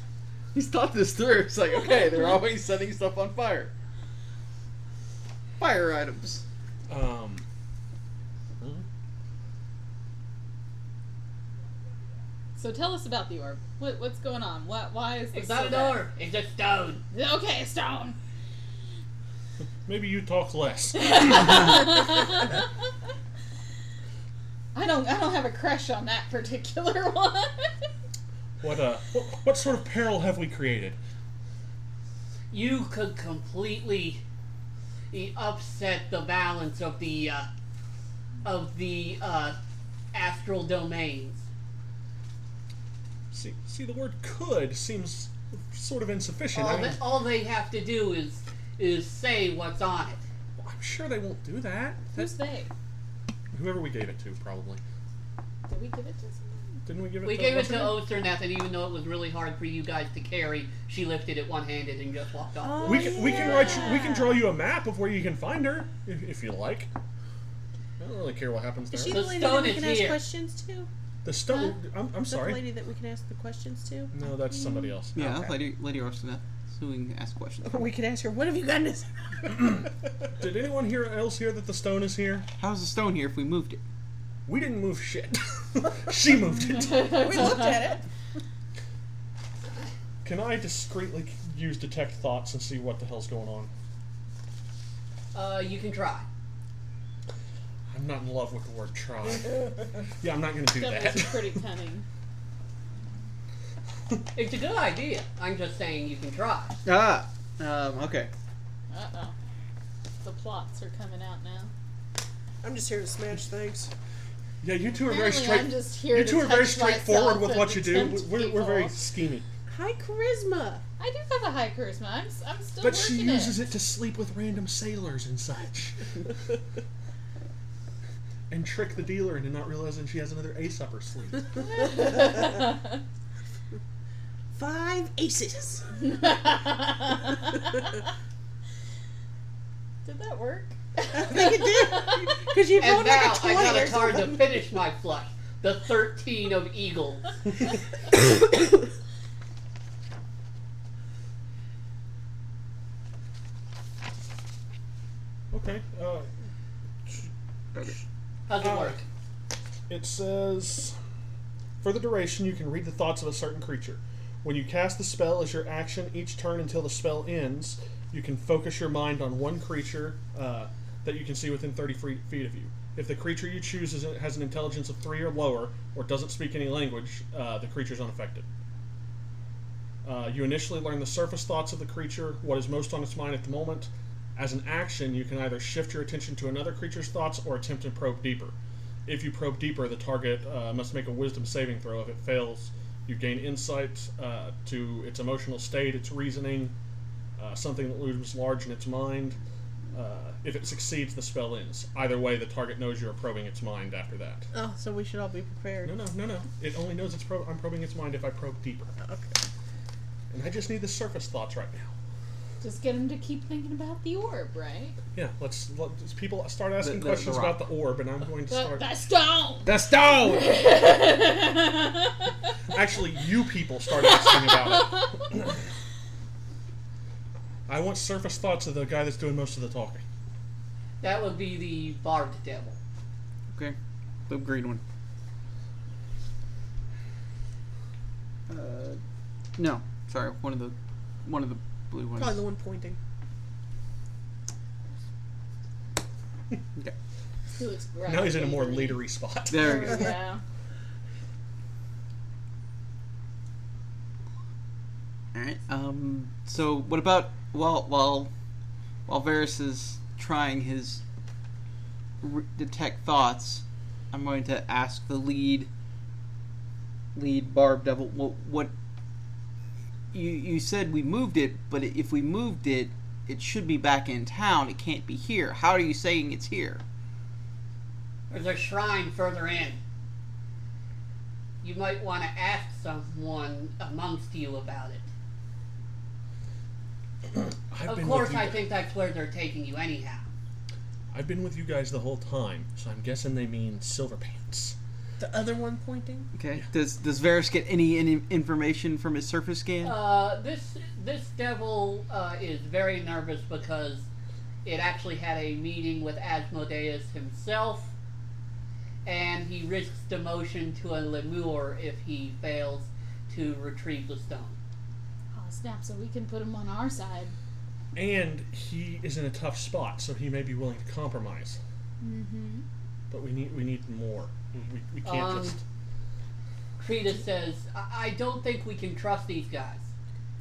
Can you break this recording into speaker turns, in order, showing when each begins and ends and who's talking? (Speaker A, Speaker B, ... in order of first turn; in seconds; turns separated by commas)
Speaker A: 0.5-3.7, Speaker A: 5.6-6.4, Speaker B: 6.9-7.4, Speaker C: 12.6-16.0, Speaker D: 15.3-17.0, Speaker C: 17.1-18.1, Speaker B: 19.9-21.6, Speaker C: 21.0-22.6, Speaker C: 24.7-27.9, Speaker B: 28.6-31.0, Speaker D: 32.5-34.2, Speaker D: 35.1-37.5, Speaker D: 38.4-39.6, Speaker D: 40.1-41.5, Speaker B: 43.3-47.0, Speaker D: 46.5-50.2, Speaker B: 50.6-52.3, Speaker C: 52.1-52.7, Speaker B: 53.5-54.8, Speaker C: 55.7-56.8, Speaker B: 56.8-58.0, Speaker D: 57.2-63.3, Speaker E: 62.6-64.4, Speaker B: 62.8-66.9, Speaker C: 63.3-64.1, Speaker B: 68.0-69.5, Speaker E: 68.9-70.9, Speaker D: 69.1-70.2, Speaker B: 71.2-72.7, Speaker E: 72.3-74.1, Speaker B: 74.1-75.3, Speaker A: 75.1-77.8, Speaker E: 75.2-75.5, Speaker E: 77.6-79.5, Speaker B: 79.5-82.5, Speaker A: 82.5-83.8, Speaker B: 84.5-87.2, Speaker C: 86.9-87.7, Speaker E: 87.0-88.0, Speaker B: 90.2-93.7, Speaker D: 95.3-96.3, Speaker B: 97.9-101.6, Speaker C: 100.8-102.0, Speaker D: 104.3-106.8, Speaker A: 106.8-108.3, Speaker C: 108.9-109.3, Speaker C: 110.2-111.7, Speaker E: 112.6-113.9, Speaker B: 114.6-119.5, Speaker C: 115.0-119.0, Speaker E: 119.7-120.8, Speaker C: 121.0-123.6, Speaker B: 122.8-126.1, Speaker B: 128.5-131.5, Speaker C: 131.7-132.9, Speaker E: 134.5-136.0, Speaker C: 136.2-137.8, Speaker C: 140.0-142.3, Speaker E: 141.1-144.6, Speaker D: 142.8-147.4, Speaker B: 155.5-156.3, Speaker D: 158.5-159.0, Speaker B: 158.6-159.0, Speaker B: 159.9-160.9, Speaker B: 161.8-178.5, Speaker B: 180.0-188.5, Speaker B: 189.1-196.7, Speaker B: 197.4-199.4, Speaker B: 199.9-204.5, Speaker E: 204.5-205.9, Speaker B: 205.8-208.9, Speaker E: 209.0-209.3, Speaker B: 210.3-211.9, Speaker C: 212.6-215.0, Speaker B: 215.1-218.9, Speaker A: 216.8-217.6, Speaker C: 218.5-222.3, Speaker A: 219.6-220.6, Speaker B: 222.7-225.6, Speaker C: 224.4-225.0, Speaker B: 227.7-230.0, Speaker D: 231.0-232.8, Speaker A: 234.3-234.8, Speaker A: 238.5-239.0, Speaker A: 239.6-242.4, Speaker E: 242.2-243.0, Speaker C: 247.6-250.4, Speaker B: 248.1-250.0, Speaker A: 249.5-250.1, Speaker A: 255.3-258.3, Speaker A: 259.1-261.0, Speaker A: 262.2-265.7, Speaker A: 267.1-268.7, Speaker A: 270.1-276.8, Speaker D: 278.3-279.8, Speaker D: 281.6-285.0, Speaker B: 287.3-288.6, Speaker D: 287.9-290.2, Speaker B: 291.1-294.8, Speaker E: 295.2-296.3, Speaker A: 296.4-300.0, Speaker D: 299.8-304.1, Speaker D: 304.6-307.9, Speaker D: 309.0-314.6, Speaker C: 315.3-317.3, Speaker B: 317.9-321.6, Speaker C: 322.0-322.6, Speaker B: 323.1-325.6, Speaker D: 325.0-325.6, Speaker D: 326.8-329.9